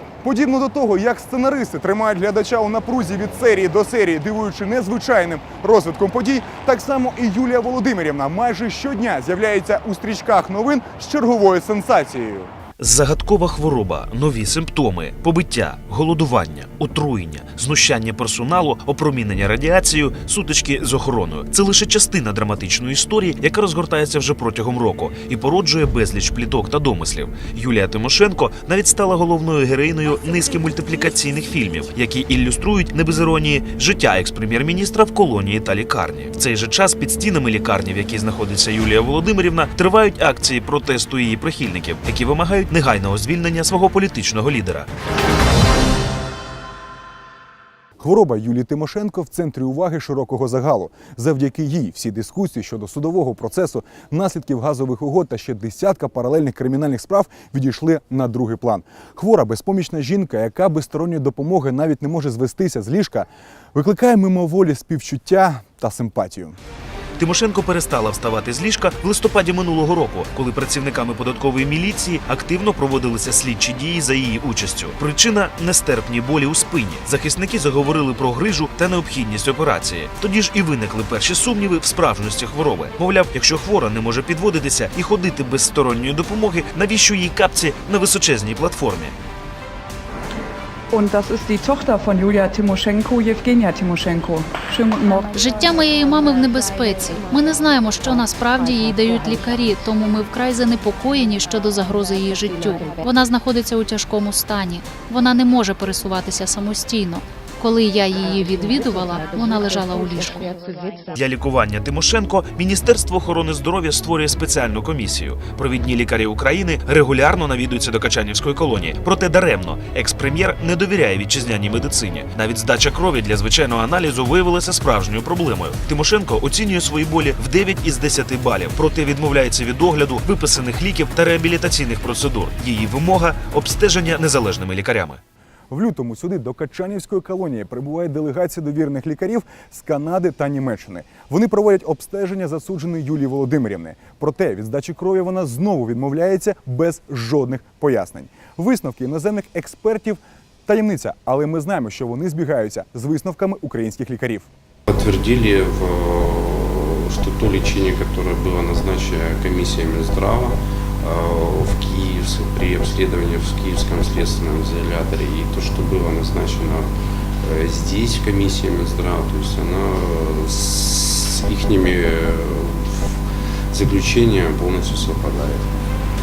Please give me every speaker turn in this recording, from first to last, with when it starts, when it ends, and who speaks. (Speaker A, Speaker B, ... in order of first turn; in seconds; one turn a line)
Speaker A: 0.2-12.5
Speaker B: 12.8-44.9
Speaker A: 48.0-66.6
Speaker B: 67.2-89.1
Speaker C: 90.9-95.2
Speaker D: 95.3-110.5
Speaker B: 111.2-135.2
Speaker A: 135.7-154.5
Speaker E: 154.9-166.9
Speaker E: 167.4-173.1
Speaker E: 173.7-175.7